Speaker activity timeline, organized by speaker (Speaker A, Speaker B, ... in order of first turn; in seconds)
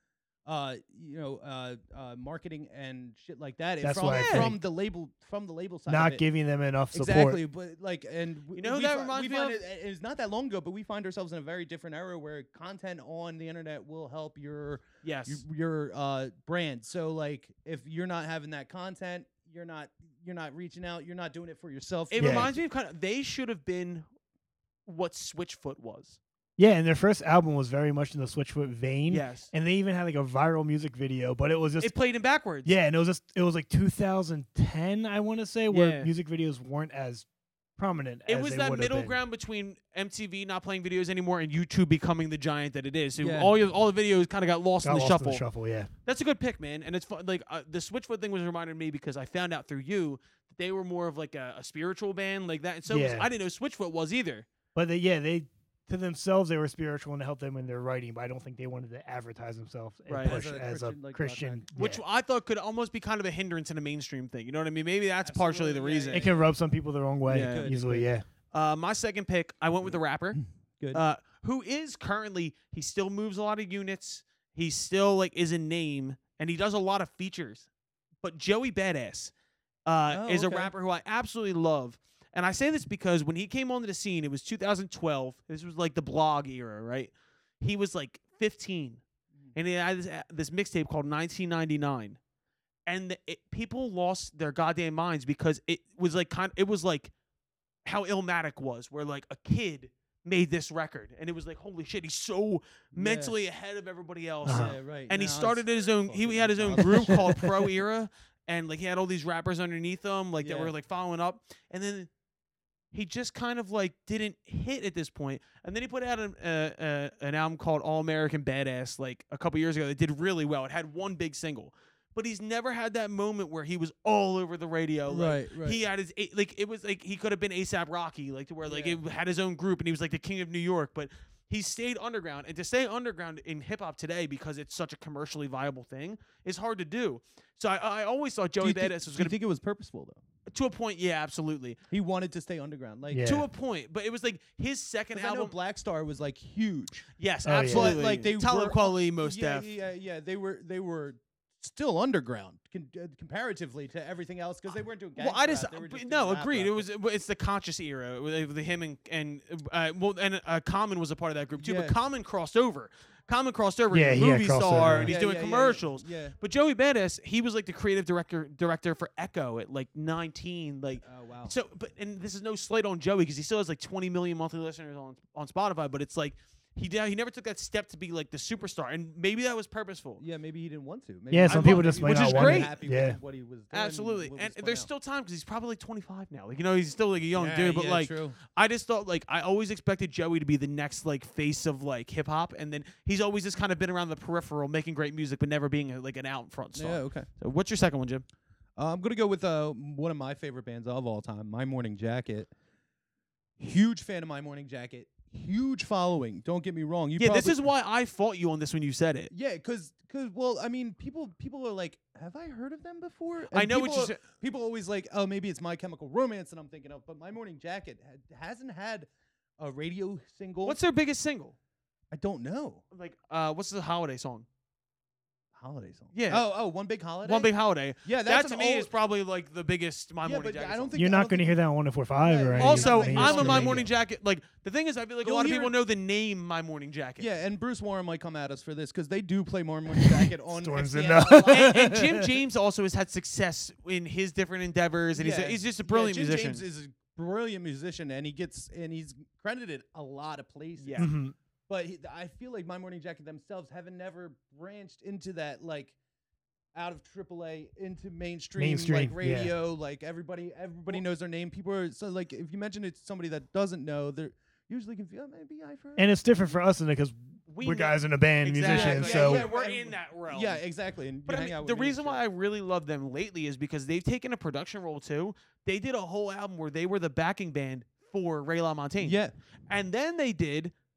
Speaker A: 0.5-6.2, 6.9-22.6, 43.2-43.5, 60.2-61.6, 65.2-66.5, 67.3-68.1, 70.3-71.0, 80.1-80.7, 102.9-103.3, 104.5-107.4, 110.4-110.7, 125.1-125.8, 128.7-129.0, 138.6-140.2, 141.9-143.3, 145.1-147.1, 147.7-156.9, 161.6-162.0, 164.8-166.4, 171.0-171.5, 180.2-184.9, 187.3-188.4, 196.8-197.3, 198.8-202.5, 203.6-207.6, 209.3-219.1, 219.6-220.8, 222.1-222.8, 225.6-227.5, 228.0-228.9, 230.2-231.6, 232.2-233.9, 235.2-235.7, 237.2-241.9, 245.2-251.1, 251.7-255.9, 256.8-266.1, 268.6-272.2, 279.0-279.3
Speaker B: 3.8-4.6, 5.9-7.4, 22.2-22.5, 26.6-31.9, 32.6-37.3, 37.8-39.2, 44.8-45.9, 52.9-53.3, 54.8-62.0, 66.1-68.2, 104.5-104.8, 143.1-143.5, 147.4-148.0, 163.9-165.1, 181.3-183.2, 231.0-233.9, 240.1-242.1, 251.0-251.3, 258.6-259.5, 266.0-269.5
Speaker C: 4.1-4.5, 8.5-9.6, 15.0-15.4, 22.1-24.1, 24.9-26.2, 29.1-29.5, 31.8-32.7, 35.7-36.1, 38.3-45.5, 46.0-54.5, 60.1-60.4, 61.8-66.3, 67.3-67.7, 68.5-70.4, 70.9-77.7, 78.2-79.3, 79.9-89.0, 89.5-92.2, 92.9-97.1, 97.8-112.1, 112.9-139.4, 140.5-141.8, 143.2-145.5, 147.2-149.7, 155.2-180.2, 181.5-182.7, 183.7-198.2, 207.2-209.3, 213.5-214.2, 220.6-221.6, 222.9-224.5, 226.1-226.4, 227.2-230.9, 232.6-237.3, 241.4-246.7, 250.8-251.1, 267.5-270.6, 271.3-280.7